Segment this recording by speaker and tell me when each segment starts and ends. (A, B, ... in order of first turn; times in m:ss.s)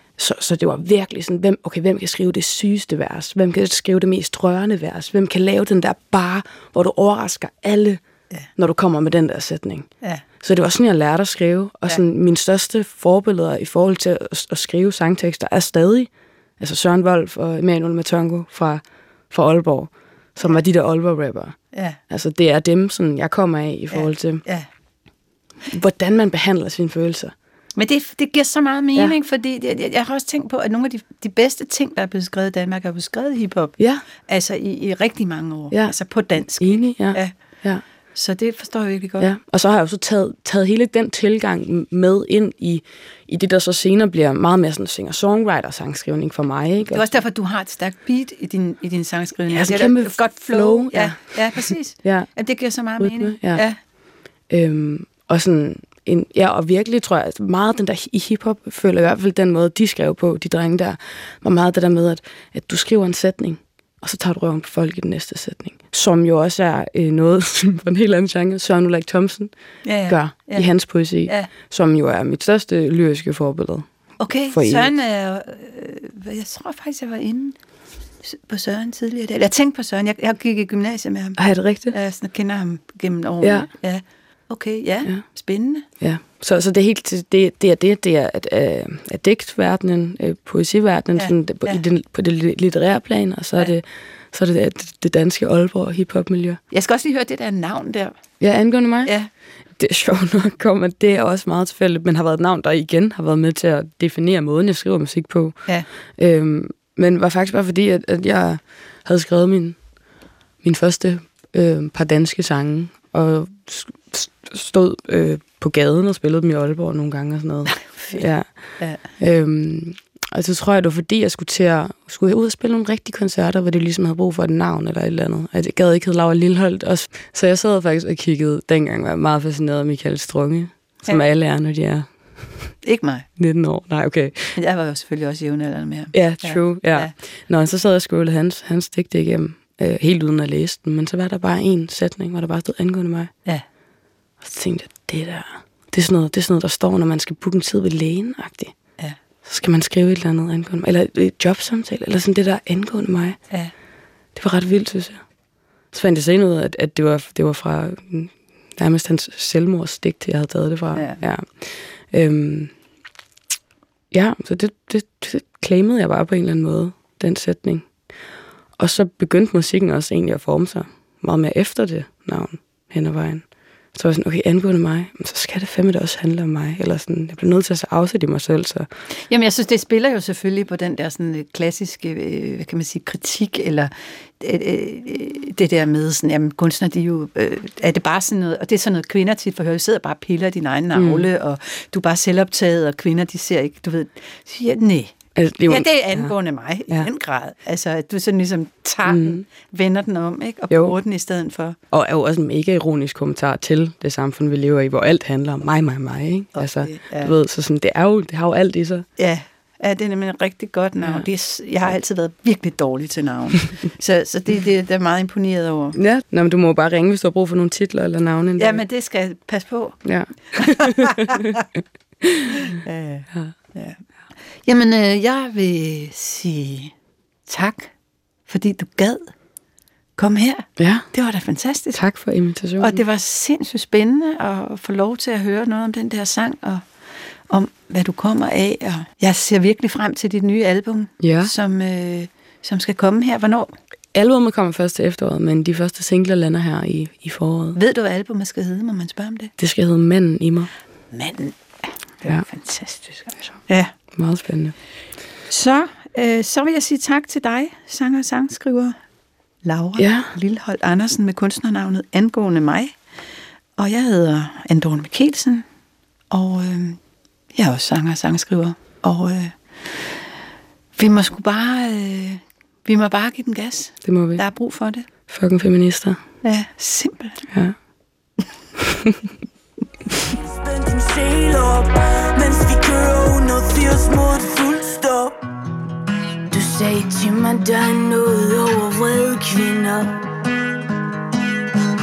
0:00.2-0:08.0 A
0:08.6-0:09.9 A
0:10.4-0:21.6 A
0:21.7-0:22.0 B
0:22.1-0:24.4 A
0:23.9-0:24.7 B
0:25.7-0:27.3 A
0:27.8-0:37.3 B
0:33.8-0:34.0 A
0:35.7-0:37.8 A
0:38.1-0:39.3 B
0:39.2-0:47.1 A
0:46.9-0:53.8 B
0:49.5-0:52.3 A
0:53.0-0:53.6 A
0:54.5-1:09.5 A
1:09.8-1:10.7 B
1:10.1-1:13.9 A
1:14.2-1:17.6 B
1:14.5-1:14.9 A
1:18.2-1:25.9 B
1:21.4-1:22.0 A
1:23.4-1:23.7 A
1:26.0-1:36.6 A
1:31.2-1:31.8 B
1:36.7-1:38.1 B
1:38.4-1:39.1 A
1:39.8-1:45.6 A
1:46.2-1:49.8 A
1:50.6-1:58.4 A
1:59.0-2:12.1 A
2:12.8-2:13.3 B
2:13.4-2:14.6 A
2:14.6-2:17.1 B
2:16.1-2:23.3 A
2:24.4-2:28.8 A
2:29.4-2:33.4 A
2:34.4-2:35.2 A
2:35.9-2:42.7 A
2:40.9-2:41.2 B
2:44.1-2:47.9 A
2:48.8-2:58.9 A
2:59.3-3:15.2 B
3:11.0-3:11.3 A
3:15.4-3:16.3 A
3:15.7-3:21.8 B
3:19.1-3:19.4 A
3:20.7-3:21.0 A
3:21.9-3:29.1 A
3:26.6-3:27.3 B
3:29.2-3:36.0 B
3:36.0-3:38.8 A
3:38.6-3:41.7 B
3:40.0-3:41.5 A
3:42.2-3:42.7 A
3:42.5-3:44.0 B
3:44.7-3:46.9 B
3:47.5-3:47.9 B
3:48.5-3:49.3 B
3:50.2-3:52.0 B
3:50.8-3:51.1 A
3:51.9-3:53.0 A
3:52.8-3:56.8 B
3:57.5-4:03.7 B
4:01.2-4:01.5 A
4:04.1-4:07.8 A
4:07.8-4:09.5 B
4:09.6-4:10.7 A
4:11.1-4:11.6 B
4:12.2-4:13.9 B
4:14.1-4:14.8 A
4:15.5-4:19.0 B
4:19.6-4:23.0 B
4:20.0-4:20.3 A
4:23.8-4:25.6 B
4:26.3-4:27.0 B
4:27.5-4:30.2 B
4:31.0-4:35.1 B
4:34.0-4:34.4 A
4:35.3-4:36.2 A
4:36.4-4:37.5 B
4:37.5-4:37.8 A
4:38.8-4:39.3 A
4:40.2-4:45.4 C
4:46.5-4:50.2 C